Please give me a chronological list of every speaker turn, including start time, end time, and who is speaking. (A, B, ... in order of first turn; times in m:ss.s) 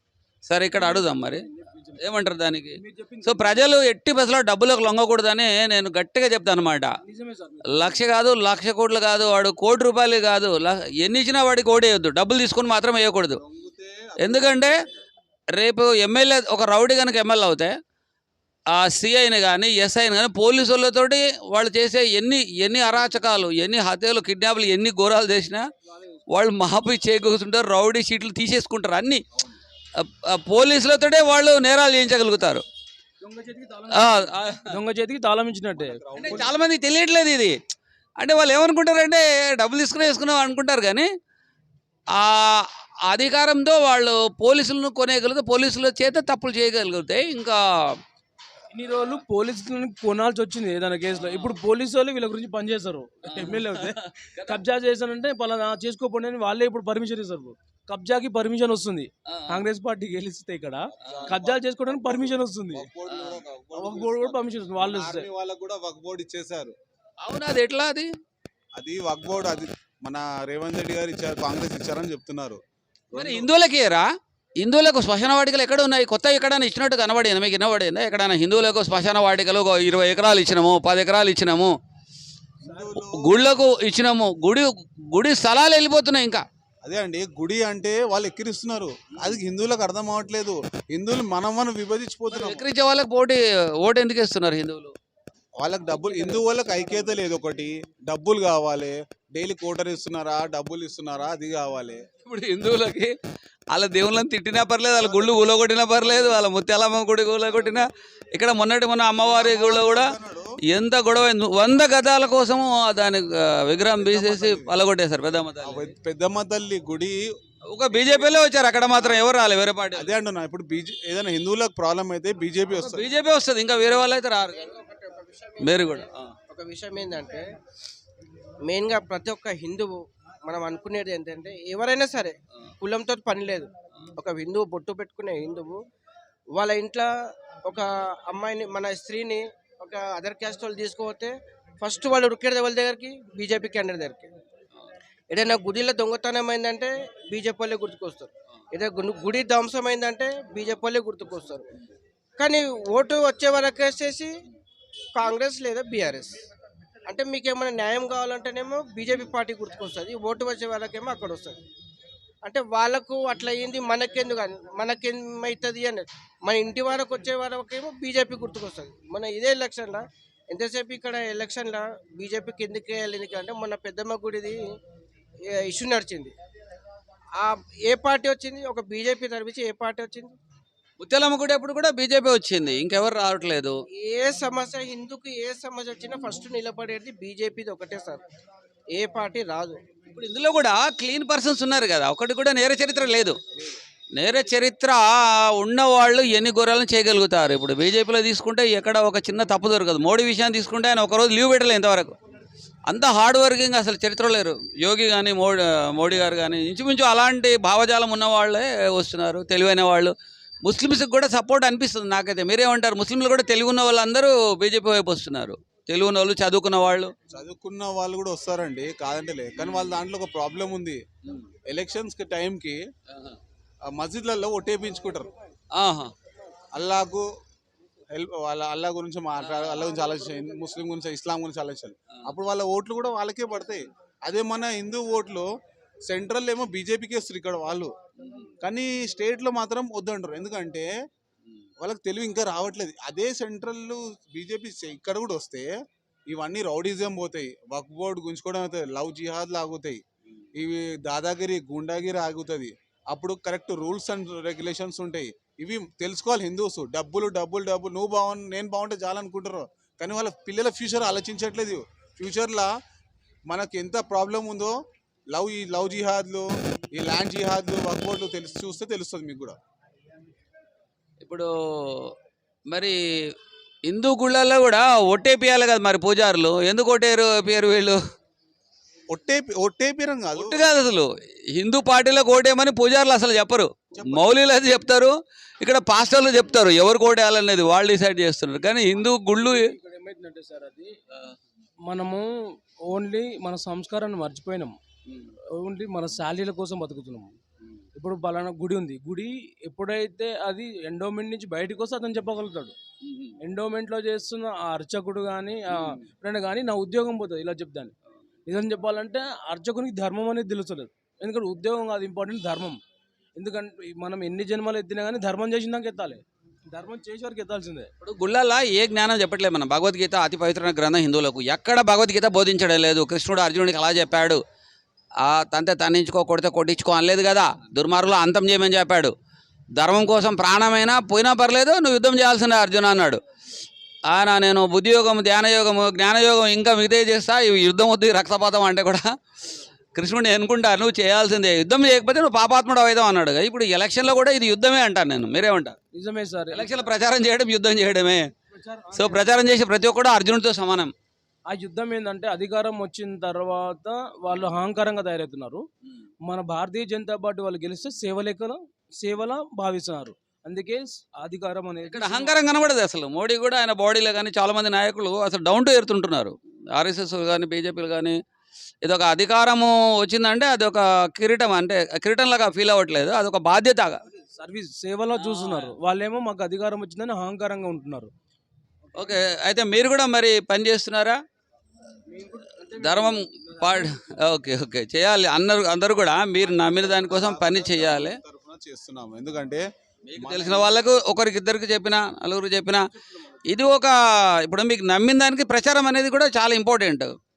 0:00.4-0:01.5 A
0:00.8-0:02.0 B
0:02.0-0:06.9 A
0:02.8-0:03.6 B
0:07.0-0:08.0 B
0:07.7-0:13.4 A
0:13.4-0:14.7 C
0:14.2-0:14.7 A
0:15.5-0:17.8 A
0:18.7-0:25.7 A
0:26.3-0:29.2 A
0:30.0-0:32.6 A
0:33.2-0:36.4 B
0:33.9-0:34.7 A
0:35.8-0:36.6 C
0:36.2-0:37.5 A
0:38.2-0:41.1 A
0:42.1-0:48.0 A
0:48.7-1:02.9 B
0:53.3-0:54.6 A
0:59.3-0:59.6 A
1:01.0-1:01.3 A
1:01.0-1:06.7 C
1:03.1-1:03.4 A
1:03.8-1:05.3 B
1:07.2-1:08.1 A
1:08.8-1:12.6 C
1:13.1-1:13.5 C
1:13.1-1:14.0 A
1:14.6-1:21.8 A
1:22.6-1:23.4 C
1:23.0-1:26.4 A
1:26.8-1:32.7 C
1:32.3-1:34.9 A
1:35.6-1:42.0 C
1:36.0-1:36.6 B
1:42.2-1:43.2 A
1:43.7-1:50.1 A
1:45.0-1:45.5 C
1:49.3-1:50.6 C
1:50.7-1:55.9 A
1:53.9-1:54.7 C
1:55.6-1:57.2 C
1:57.7-2:00.1 A
2:00.0-2:03.1 C
2:02.8-2:04.8 A
2:04.6-2:07.5 D
2:05.6-2:06.3 A
2:08.6-2:15.8 D
2:16.5-2:24.3 D
2:25.3-2:31.7 D
2:32.4-2:34.3 D
2:35.2-2:36.4 D
2:37.0-2:41.6 D
2:42.4-2:54.6 D
2:55.5-2:56.3 D
2:57.4-3:00.3 D
3:01.0-3:03.8 A
3:04.0-3:08.2 D
3:08.9-3:09.8 D
3:10.1-3:13.4 A
3:14.2-3:22.1 A
3:22.9-3:37.1 A
3:37.3-3:41.0 C
3:39.6-3:39.9 A
3:41.7-3:42.8 C
3:43.1-3:43.4 A
3:43.9-3:45.3 C
3:45.7-3:46.1 A
3:46.7-3:47.3 C
3:48.1-3:55.5 C
3:49.4-3:50.0 A
3:56.1-3:57.9 C
3:58.2-3:58.5 A
3:58.6-4:00.9 C
4:01.8-4:05.7 C
4:06.3-4:10.0 C
4:10.6-4:22.7 C
4:23.5-4:24.8 C
4:25.3-4:29.6 C
4:31.2-4:32.1 A
4:32.7-4:33.0 A
4:33.9-4:38.0 A
4:39.1-4:40.6 C
4:40.4-4:49.7 A
4:43.9-4:44.4 C
4:48.9-4:50.9 B
4:51.9-4:52.3 B
4:52.9-4:54.8 B
4:55.5-4:57.3 B
4:58.0-5:02.7 B
5:03.0-5:03.4 A
5:03.4-5:07.9 B
5:05.7-5:06.0 A
5:08.5-5:12.8 B
5:13.4-5:17.9 B
5:18.0-5:24.4 A
5:25.2-5:29.1 A
5:29.8-5:33.2 A
5:34.1-5:39.1 A
5:39.9-5:45.8 A
5:45.9-5:46.8 B
5:46.5-5:48.3 A
5:48.5-5:49.4 B
5:48.9-5:50.9 A
5:51.5-5:55.6 B
5:56.2-6:02.4 B
6:01.9-6:08.2 A
6:08.8-6:14.0 A
6:14.1-6:18.1 B
6:15.1-6:15.7 A
6:19.0-6:21.2 A
6:22.1-6:24.0 B
6:22.7-6:28.2 A
6:26.4-6:29.6 C
6:30.1-6:32.9 A
6:30.2-6:30.8 C
6:33.0-6:33.3 B
6:33.4-6:37.1 A